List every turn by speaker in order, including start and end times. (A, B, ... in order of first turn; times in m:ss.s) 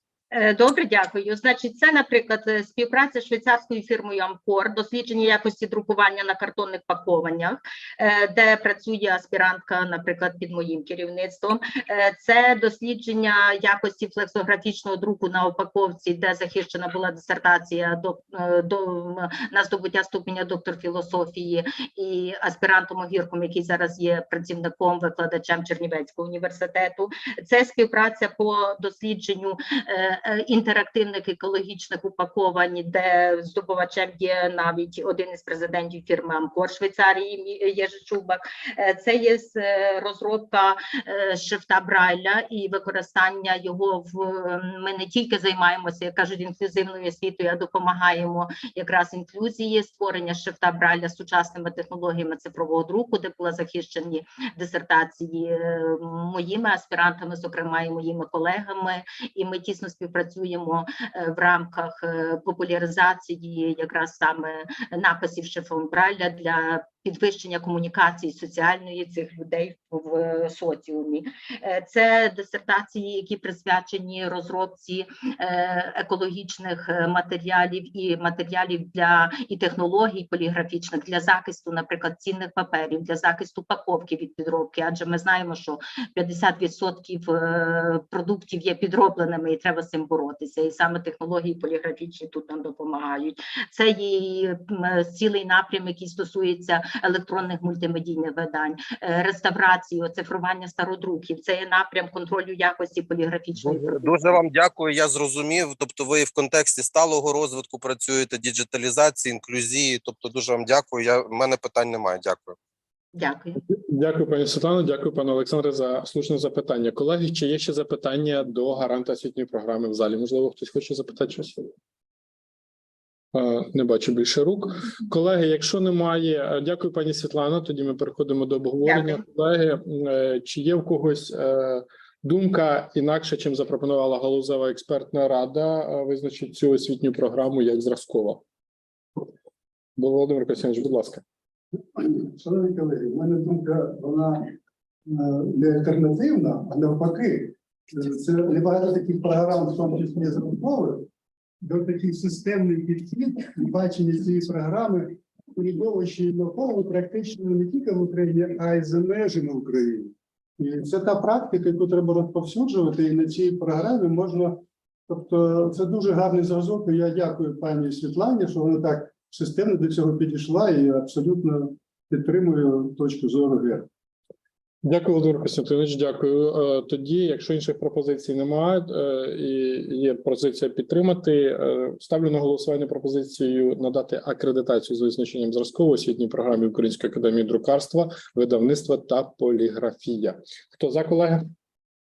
0:00.3-1:44.4 A
1:43.7-1:52.6 B
1:53.1-1:53.6 A
1:53.7-2:01.6 C
2:03.3-2:18.4 C
2:08.8-2:09.2 A
2:20.0-2:21.2 C
2:22.0-2:24.6 D
2:25.1-2:31.1 D
2:31.6-2:53.9 D
2:54.8-3:11.4 C